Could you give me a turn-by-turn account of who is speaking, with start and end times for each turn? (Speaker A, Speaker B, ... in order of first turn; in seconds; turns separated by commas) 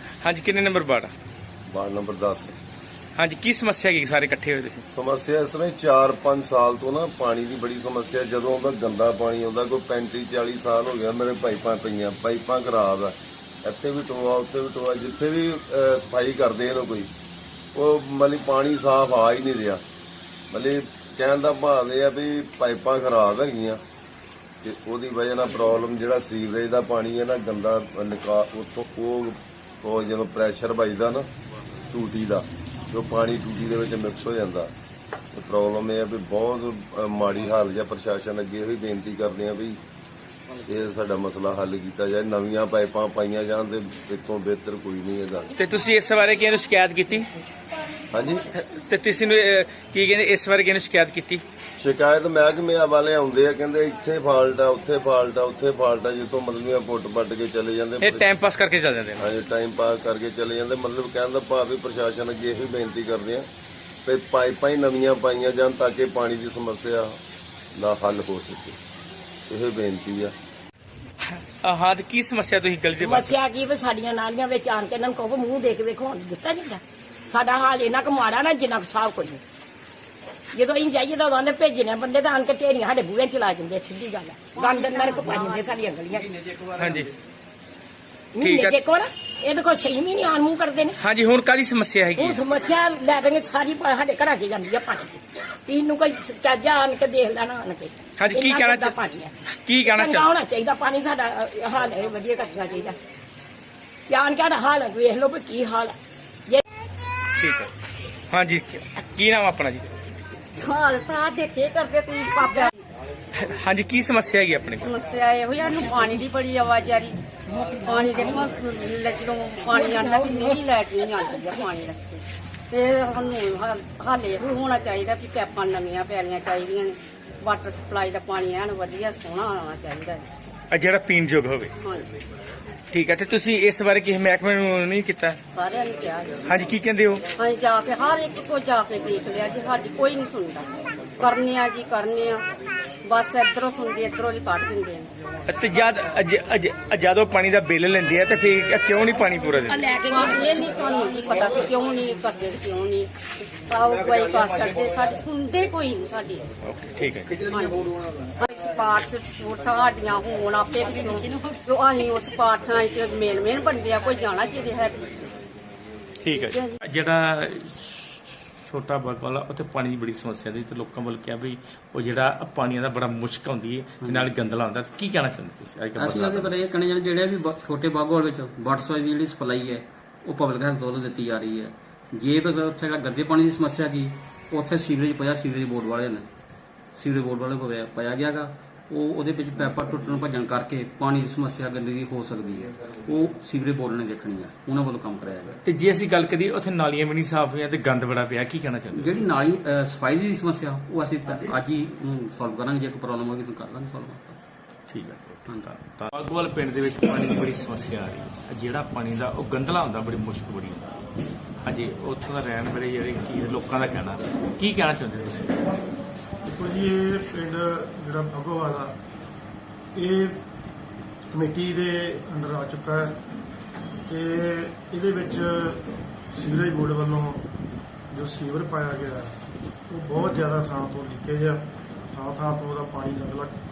Speaker A: 0.2-1.1, Speaker B: 1.7-2.5, Speaker A: 3.1-4.8, Speaker B: 4.9-17.1, Speaker B: 17.7-19.8, Speaker B: 20.5-23.8, Speaker B: 24.6-31.3, Speaker B: 31.9-34.7, Speaker B: 35.3-39.8, Speaker B: 40.7-45.5, Speaker A: 45.5-47.3, Speaker B: 48.1-48.4, Speaker A: 48.5-51.4, Speaker B: 51.8-58.3, Speaker A: 58.0-59.3, Speaker B: 59.2-63.5, Speaker B: 64.0-67.2, Speaker B: 67.7-68.8, Speaker B: 69.5-70.3, Speaker A: 71.3-73.3, Speaker C: 73.0-79.4, Speaker C: 80.5-86.5, Speaker D: 84.5-85.7, Speaker A: 86.8-87.1, Speaker C: 88.3-91.0, Speaker A: 88.4-88.8, Speaker A: 91.0-92.4, Speaker C: 92.2-99.3, Speaker A: 98.2-99.0, Speaker A: 99.6-100.3, Speaker C: 99.8-103.0, Speaker C: 104.1-105.9, Speaker A: 107.4-107.7, Speaker A: 108.3-109.8, Speaker D: 110.6-112.7, Speaker C: 112.4-112.7, Speaker A: 113.4-114.9, Speaker D: 114.8-117.2, Speaker C: 115.8-116.2, Speaker C: 117.5-118.6, Speaker D: 117.8-130.2, Speaker C: 119.7-121.7, Speaker A: 130.7-131.7, Speaker D: 131.8-132.1, Speaker A: 132.9-135.4, Speaker D: 135.5-136.4, Speaker A: 136.5-137.2, Speaker D: 137.4-140.7, Speaker D: 141.2-142.4, Speaker D: 143.0-145.1, Speaker A: 145.5-149.8, Speaker C: 149.7-150.8, Speaker D: 150.1-153.1, Speaker D: 153.7-156.4, Speaker A: 156.7-157.4, Speaker D: 157.4-165.2, Speaker A: 166.2-167.7, Speaker D: 166.3-166.7, Speaker A: 168.7-176.5, Speaker E: 174.0-174.3, Speaker E: 176.0-186.2, Speaker E: 186.9-195.6, Speaker A: 195.6-199.2, Speaker E: 198.9-204.4, Speaker A: 204.9-210.9, Speaker A: 211.6-215.6, Speaker F: 216.5-218.9, Speaker F: 219.9-220.4, Speaker F: 221.3-223.2, Speaker F: 224.1-225.8, Speaker F: 226.3-227.4, Speaker F: 228.1-229.3, Speaker F: 229.9-233.5